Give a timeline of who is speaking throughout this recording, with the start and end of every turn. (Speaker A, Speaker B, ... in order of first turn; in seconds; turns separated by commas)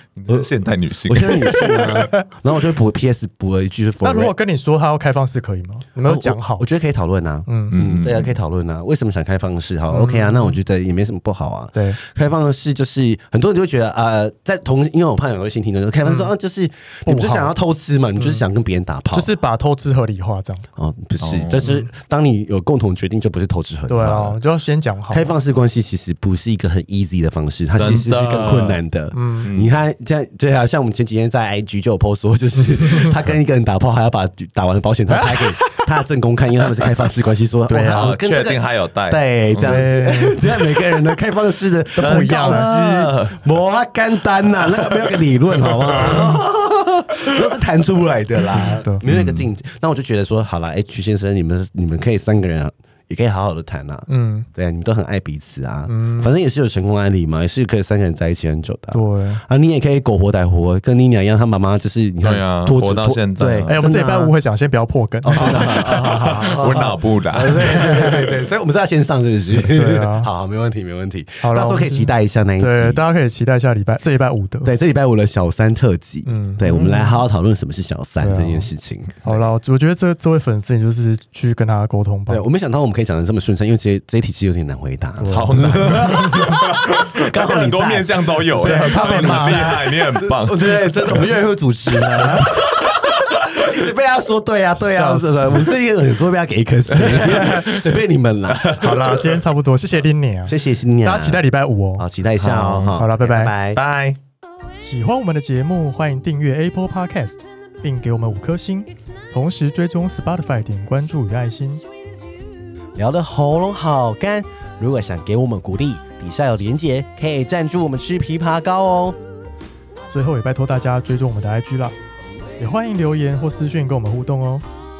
Speaker A: 0.1-1.4, Speaker B: 1.1-4.3, Speaker C: 1.4-2.2, Speaker C: 4.0-6.7, Speaker B: 6.0-19.3, Speaker C: 7.5-7.8, Speaker A: 7.7-8.4, Speaker C: 9.9-10.6, Speaker C: 16.0-16.3, Speaker C: 17.1-17.5, Speaker C: 18.2-18.4, Speaker C: 19.1-20.6, Speaker B: 20.8-24.4, Speaker A: 21.2-21.7, Speaker C: 23.9-25.3, Speaker B: 25.1-64.3, Speaker A: 27.7-28.8, Speaker C: 29.1-29.5, Speaker A: 29.4-29.7, Speaker C: 35.3-35.8, Speaker C: 37.7-38.1, Speaker A: 37.9-39.8, Speaker C: 39.6-40.4, Speaker C: 42.0-42.7, Speaker A: 42.0-43.5, Speaker A: 44.5-46.4, Speaker C: 48.4-49.0, Speaker A: 49.0-49.5, Speaker C: 54.1-54.5, Speaker C: 55.9-56.3, Speaker C: 58.9-59.4, Speaker A: 62.2-63.8, Speaker C: 63.7-65.8, Speaker B: 65.2-73.0, Speaker A: 65.3-68.3, Speaker C: 69.7-70.3, Speaker C: 71.4-74.7, Speaker B: 74.6-79.3, Speaker C: 76.2-76.7, Speaker A: 76.6-77.2, Speaker C: 78.2-78.7, Speaker C: 79.2-82.4, Speaker B: 82.3-98.8, Speaker A: 85.2-91.3, Speaker C: 85.2-86.1, Speaker C: 88.6-89.7, Speaker A: 92.1-92.5, Speaker C: 94.8-95.6, Speaker A: 96.9-97.8, Speaker C: 97.2-97.6, Speaker A: 98.5-99.4, Speaker C: 98.8-102.0, Speaker B: 100.5-101.4, Speaker B: 102.0-103.8, Speaker A: 102.4-103.0, Speaker C: 103.0-103.5, Speaker A: 103.7-104.2, Speaker C: 104.8-111.8, Speaker B: 113.0-119.2, Speaker C: 120.1-122.0, Speaker C: 122.6-124.6